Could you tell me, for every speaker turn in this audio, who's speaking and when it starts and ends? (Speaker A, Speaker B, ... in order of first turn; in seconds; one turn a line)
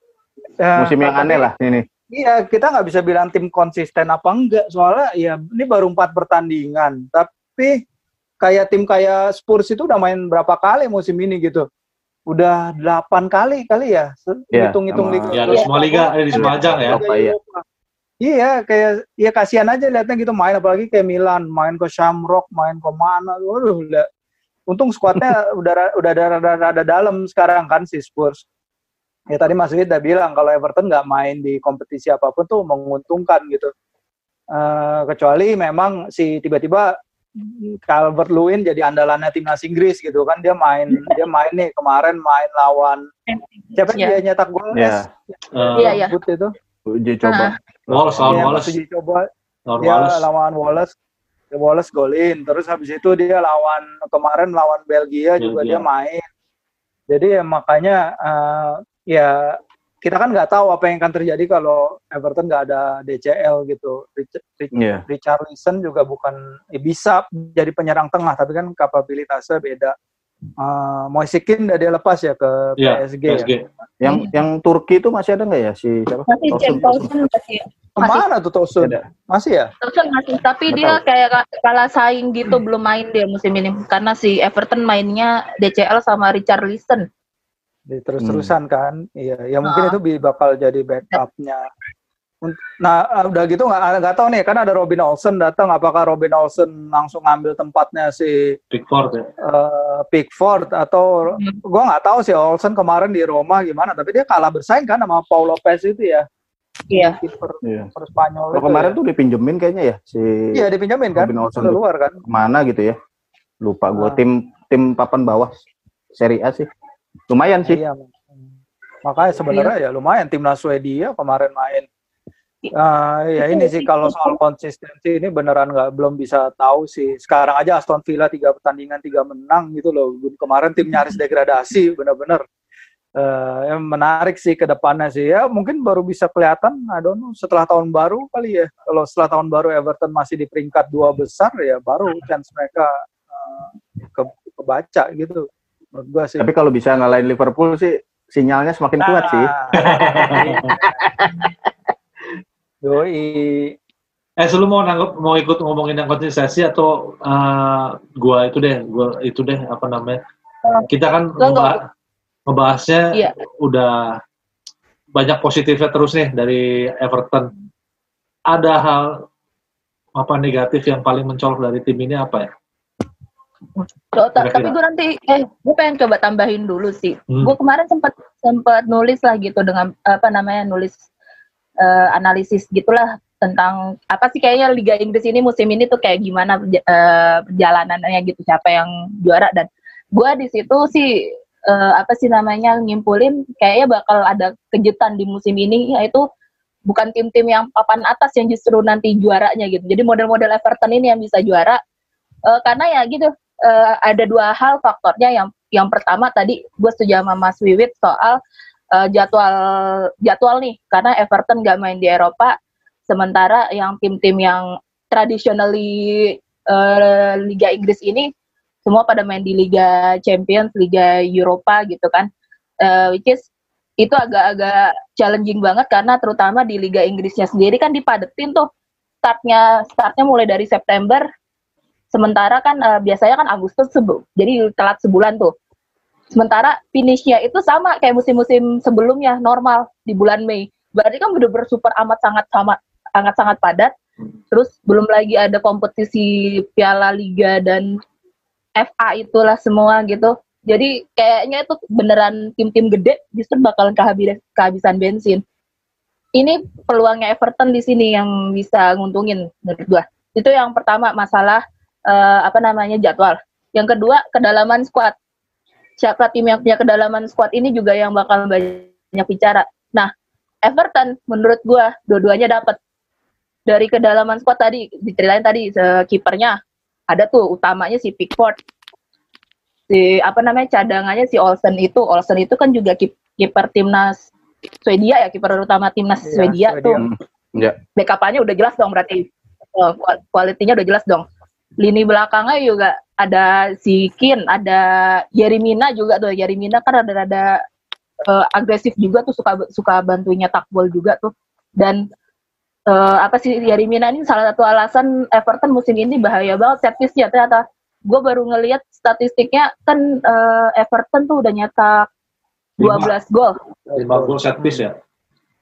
Speaker A: 0.6-1.5
Speaker B: 0.8-1.8
Speaker A: 2.1-7.8
Speaker A: 8.4-11.7
Speaker A: 12.3-17.6
Speaker B: 14.5-15.4
Speaker C: 15.3-17.0
Speaker B: 16.3-17.4
Speaker A: 18.2-24.1
Speaker A: 24.7-28.4
Speaker A: 29.3-33.7
Speaker A: 34.5-43.1
Speaker D: 43.3-44.2
Speaker A: 43.8-46.5
Speaker B: 44.7-45.1
Speaker C: 45.5-46.0
Speaker D: 45.8-46.1
Speaker B: 46.9-48.6
Speaker D: 47.2-47.5
Speaker C: 47.9-48.7
Speaker A: 48.2-49.3
Speaker C: 49.7-50.2
Speaker A: 49.8-50.9
Speaker A: 51.5-56.2
Speaker C: 55.4-55.9
Speaker A: 57.1-69.9
Speaker B: 64.7-65.0
Speaker A: 70.6-73.5
Speaker C: 72.8-73.6
Speaker B: 74.0-77.2
Speaker D: 76.3-78.2
Speaker A: 78.0-79.7
Speaker D: 79.8-87.0
Speaker B: 80.7-81.0
Speaker A: 87.9-91.7
Speaker B: 88.2-88.5
Speaker D: 89.6-90.0
Speaker A: 92.4-98.6
Speaker C: 98.7-99.3
Speaker A: 99.4-106.2
Speaker D: 101.3-101.6
Speaker D: 106.9-107.2
Speaker A: 107.0-109.0
Speaker B: 107.6-107.9
Speaker B: 108.5-112.9
Speaker A: 110.5-112.2
Speaker B: 113.6-115.5
Speaker B: 116.1-116.6
Speaker B: 117.3-117.8
Speaker A: 117.7-121.9
Speaker A: 122.7-132.4
Speaker D: 123.4-124.4
Speaker A: 133.2-146.4
Speaker B: 146.4-151.2
Speaker A: 149.0-149.8
Speaker C: 149.8-150.7
Speaker A: 152.8-153.7
Speaker C: 154.4-160.2
Speaker C: 160.9-161.8
Speaker D: 161.4-161.8
Speaker C: 162.5-164.2
Speaker C: 165.1-167.5
Speaker C: 168.5-169.1
Speaker C: 170.2-172.5
Speaker D: 173.8-181.0
Speaker C: 174.4-174.7
Speaker D: 181.8-191.1
Speaker D: 191.7-196.2
Speaker D: 196.9-201.8
Speaker D: 202.5-208.4
Speaker D: 208.9-212.6
Speaker D: 213.1-218.3
Speaker D: 218.8-222.3
Speaker D: 222.8-223.5
Speaker D: 224.0-228.7
Speaker D: 229.2-231.2
Speaker D: 232.1-235.5
Speaker D: 236.3-243.9
Speaker D: 244.5-247.9
Speaker D: 248.8-255.4
Speaker D: 256.4-265.1
Speaker D: 266.0-270.1
Speaker D: 270.6-272.8
Speaker D: 273.7-276.6
Speaker D: 277.1-278.6
Speaker D: 279.9-284.3
Speaker D: 284.8-287.0
Speaker A: 286.3-287.1
Speaker B: 287.0-287.8
Speaker D: 287.9-291.2
Speaker D: 291.8-297.6
Speaker D: 298.2-302.0
Speaker D: 302.9-312.1
Speaker C: 312.8-313.1
Speaker D: 312.8-313.6
Speaker A: 313.9-314.8
Speaker C: 313.9-314.9